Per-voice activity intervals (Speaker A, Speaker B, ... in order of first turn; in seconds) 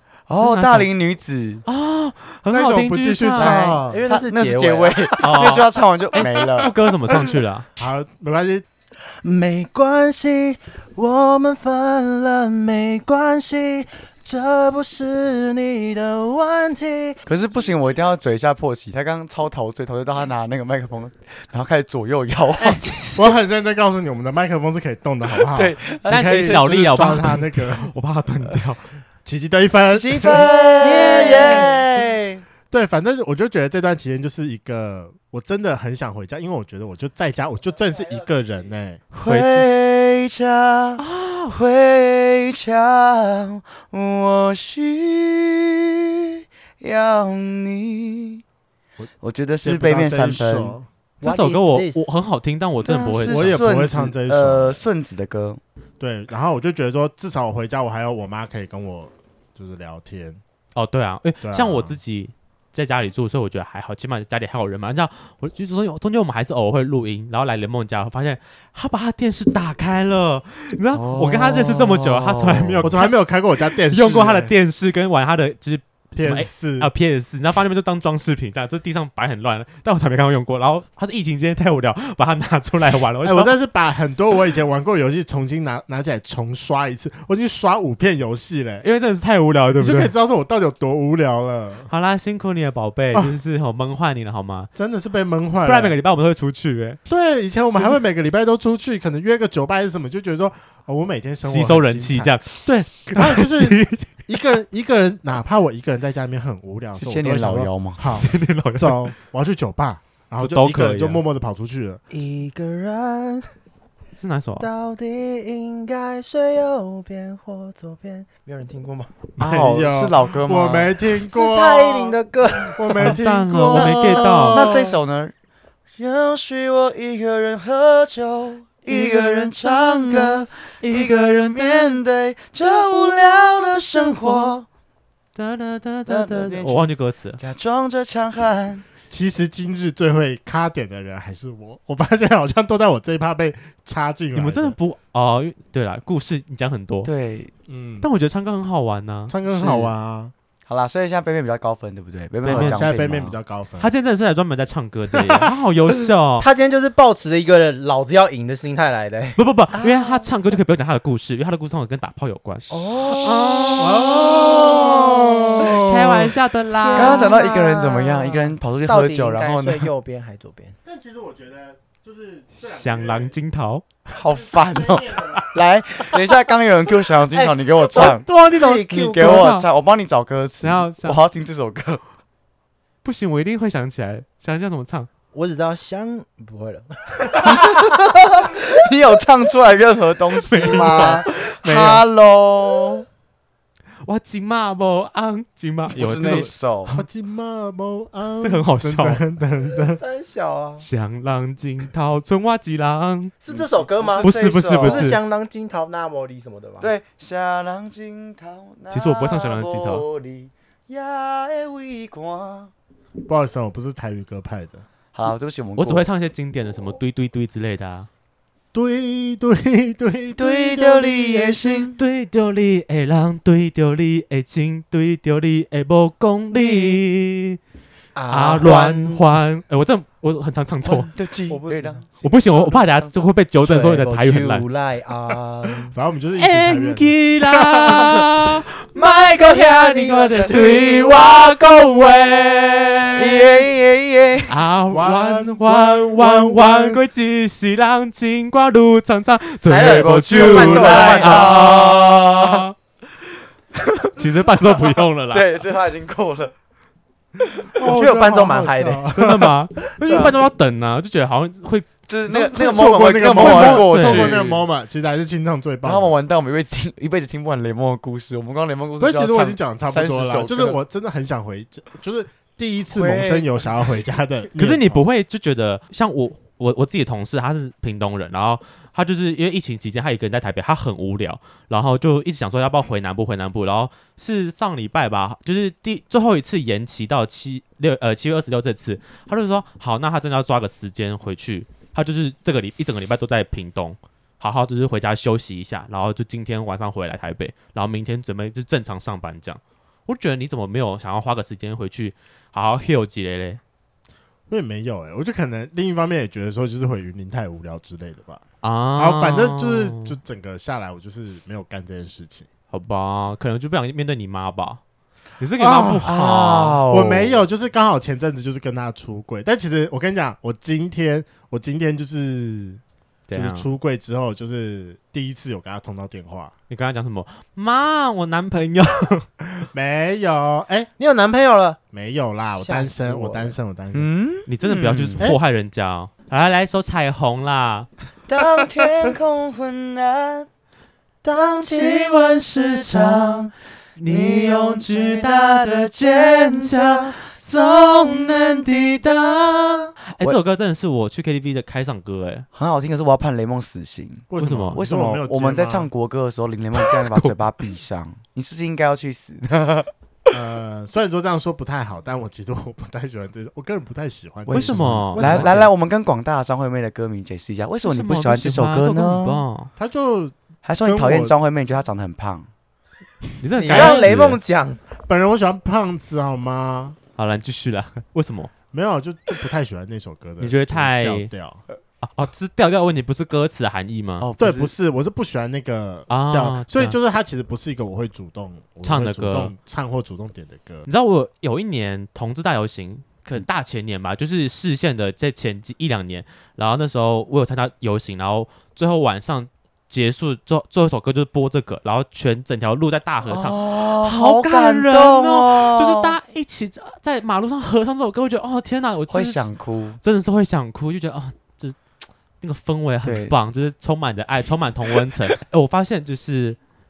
Speaker A: 0.3-1.6, 4.1-6.7, 17.2-22.8, 25.5-26.8, 29.9-32.4, 39.1-46.3, 46.8-48.4, 49.2-50.8, 52.8-55.6, 70.9-73.0, 106.9-108.2, 119.4-121.0, 123.7-125.3, 126.0-134.7, 136.1-138.8, 147.0-147.5, 150.7-153.3, 166.9-169.9, 174.1-178.3, 178.8-182.0, 187.3-193.1, 195.9-196.9, 203.5-205.2, 206.8-212.7, 215.1-216.1, 220.3-222.0, 230.8-233.3, 239.0-241.5, 243.1-244.6, 249.7-252.7, 255.3-256.5, 262.1-264.5, 265.8-270.8, 272.9-273.7, 316.0-317.5, 333.9-335.2, 338.3-340.5, 341.6-343.5, 344.1-350.4, 352.5-359.9, 364.5-369.4, 370.6-372.5, 384.2-384.7, 403.2-406.2, 409.1-410.0, 413.0-413.4
Speaker B: 0.4-0.9, 1.6-3.8, 5.2-7.7, 26.1-29.0, 31.0-31.7, 39.2-39.7, 41.0-41.5, 51.2-53.6, 60.7-83.5, 88.8-90.1, 91.9-94.7, 95.6-97.0, 101.4-104.4, 108.1-109.1, 110.4-111.2, 114.2-114.7, 123.0-124.7, 128.9-129.5, 130.5-132.0, 134.1-134.5, 135.3-137.4, 144.3-147.1, 148.0-149.9, 152.4-152.9, 153.8-156.5, 159.4-165.0, 165.6-167.3, 172.6-173.8, 177.9-179.7, 180.6-181.2, 183.0-185.1, 190.4-192.0, 194.0-197.1, 198.4-199.2, 200.8-203.3, 204.2-205.2, 208.9-210.0, 215.8-218.1, 222.0-227.6, 228.3-231.1, 232.2-234.6, 236.4-243.7, 244.5-252.7, 254.0-255.5, 259.1-261.9, 262.4-264.6, 274.6-303.6, 308.6-310.1, 312.7-314.8, 315.4-316.8, 323.3-323.7, 326.7-329.3, 334.5-337.9, 341.6-352.4, 354.4-354.8, 356.8-357.4, 364.5-365.6, 367.8-369.7, 373.4-374.4, 377.2-378.5, 380.4-381.3, 382.0-384.3, 386.1-387.0, 388.8-389.5, 390.8-409.5, 410.0-411.8, 412.4-416.6
Speaker C: 2.5-4.0, 7.8-8.6, 23.1-27.9, 29.2-30.5, 32.7-39.0, 49.6-50.9, 53.3-54.8, 56.0-60.4, 61.4-62.0, 72.8-74.5, 76.2-76.9, 83.2-88.8, 89.8-91.9, 94.7-96.0, 97.1-112.0, 119.4-122.2, 122.7-124.9, 139.1-144.8, 147.7-148.1, 149.3-150.3, 152.4-153.9, 155.2-155.5, 163.8-166.3, 170.8-173.3, 174.3-175.5, 196.9-200.0, 213.2-214.8, 218.7-221.8, 235.9-238.2, 244.9-247.0, 257.7-259.6, 262.3-266.1, 269.0-275.0, 304.5-308.4, 308.9-312.5, 315.6-316.3, 316.9-322.8, 323.3-326.5, 329.6-330.9, 331.9-334.1, 354.3-355.9, 360.3-365.7, 369.8-371.3, 373.6-374.2, 375.0-377.0, 378.7-381.6, 384.4-390.9
Speaker D: 3.3-5.5, 9.2-17.2, 22.6-23.3, 30.8-31.9, 51.2-52.1, 112.1-113.5, 114.6-119.1, 121.3-123.0, 156.4-160.3, 162.7-164.8, 166.7-170.7, 177.3-179.5, 185.3-187.9, 200.0-200.8, 203.4-206.9, 228.1-229.2, 231.5-232.0, 233.6-235.9, 249.7-251.6, 257.8-259.1, 331.0-331.8, 332.6-333.5, 341.2-342.0, 373.5-374.8